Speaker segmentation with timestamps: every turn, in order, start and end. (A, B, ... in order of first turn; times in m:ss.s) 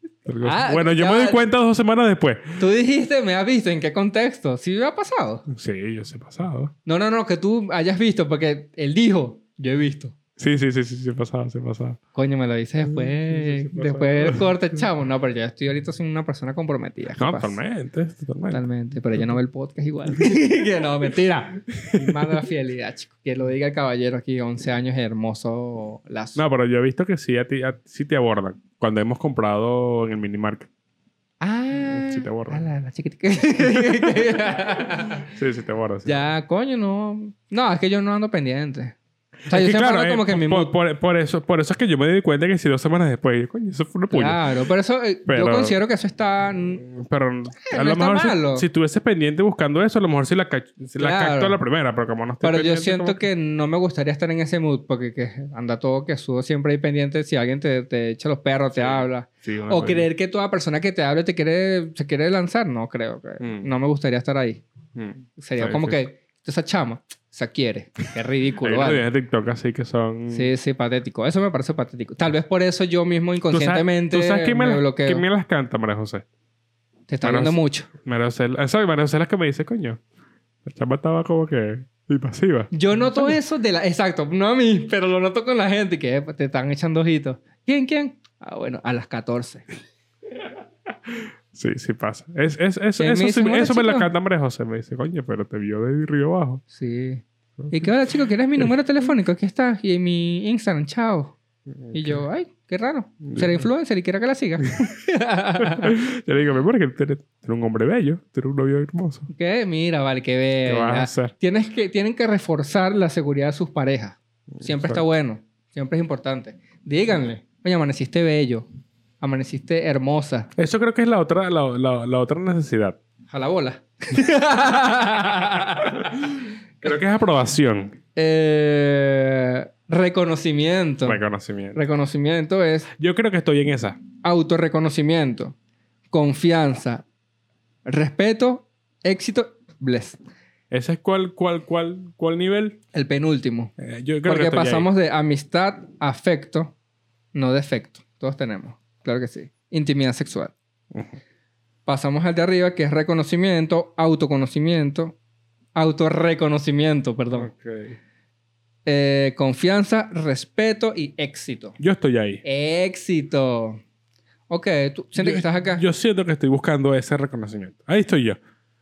0:00.2-0:02.6 A
0:00.4-0:01.4 B
0:02.6-0:05.4 B
0:05.5-0:06.7 A
0:06.8-0:10.2 B
0:10.4-0:12.0 A
0:12.1-0:17.6 B
0:12.8-0:14.8 A
0:17.2-0:18.6 A
0:18.5-0:26.4 B
0:21.8-0:22.3 A
0:26.4-0:30.7 A
0:31.4-0:35.3 B
0:31.8-0:32.6 A
0:33.8-0:34.1 A
0:35.3-0:36.2 A
0:36.0-0:38.9 B
0:39.5-0:44.4 A
0:39.5-0:40.7 B
0:44.1-0:46.9 B
0:45.3-0:45.7 A
0:46.8-0:53.2 A
0:47.6-0:48.6 B
0:51.0-0:51.6 B
0:52.4-1:04.6 B
0:58.7-1:00.1 A
1:03.4-1:03.7 A
1:05.0-1:06.0 A
1:05.4-1:09.0 B
1:08.6-1:10.5 A
1:10.3-1:15.2 B
1:13.5-1:16.2 A
1:17.1-1:17.9 B
1:17.2-1:20.0 A
1:20.6-1:23.3 A
1:22.7-1:29.6 B
1:31.1-1:36.6 A
1:33.0-1:34.1 B
1:36.7-1:41.3 B
1:37.6-1:37.9 A
1:41.7-1:42.2 A
1:41.9-1:46.0 B
1:43.2-1:43.6 A
1:45.6-1:49.3 A
1:49.3-1:58.6 B
1:50.6-1:51.3 A
1:54.6-1:55.0 A
1:59.2-2:00.5 B
2:00.6-2:03.0 A
2:03.3-2:06.2 B
2:06.0-2:06.2 A
2:06.8-2:08.0 A
2:08.2-2:11.2 B
2:11.0-2:11.8 A
2:11.7-2:12.9 B
2:12.9-2:14.0 A
2:14.2-2:15.5 B
2:16.1-2:17.0 B
2:17.8-2:20.2 B
2:20.7-2:22.8 A
2:22.9-2:23.7 B
2:23.8-2:24.9 A
2:24.2-2:26.7 B
2:27.3-2:30.5 B
2:30.9-2:31.2 A
2:31.8-2:35.2 B
2:35.7-2:37.5 B
2:37.3-2:38.0 A
2:38.8-2:41.8 B
2:41.8-2:42.4 A
2:42.4-2:43.8 B
2:44.5-2:45.8 B
2:45.2-2:48.4 A